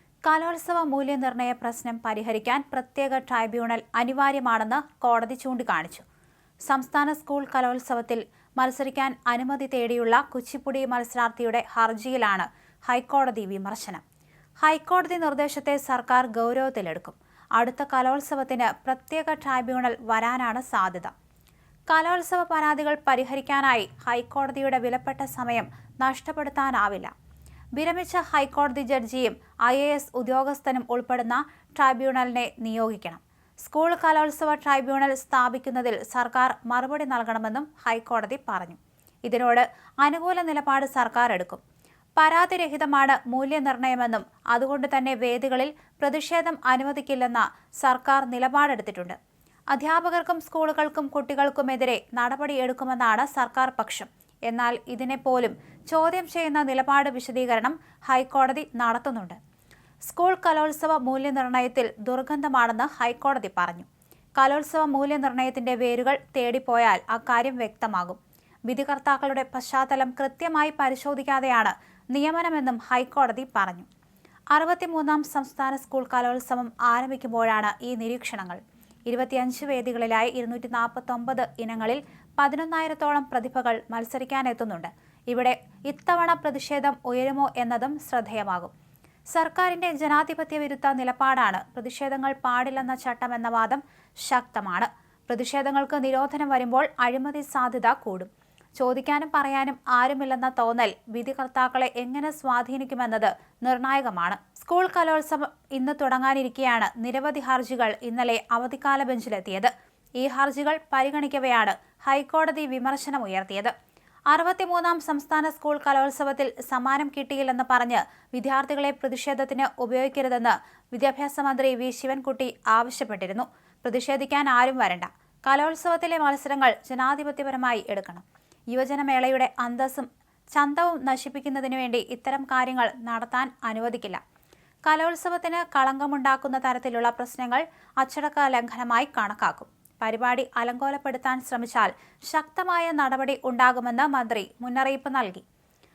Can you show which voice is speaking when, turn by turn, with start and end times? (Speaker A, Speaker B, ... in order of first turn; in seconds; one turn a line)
Speaker A: 0.2-6.0
Speaker A: 6.7-14.0
Speaker A: 14.6-21.1
Speaker A: 21.9-27.1
Speaker A: 27.8-41.6
Speaker A: 42.2-49.2
Speaker A: 49.7-59.4
Speaker A: 60.0-73.9
Speaker A: 74.5-88.7
Speaker A: 89.3-113.7
Speaker A: 114.3-134.2
Speaker A: 134.8-145.4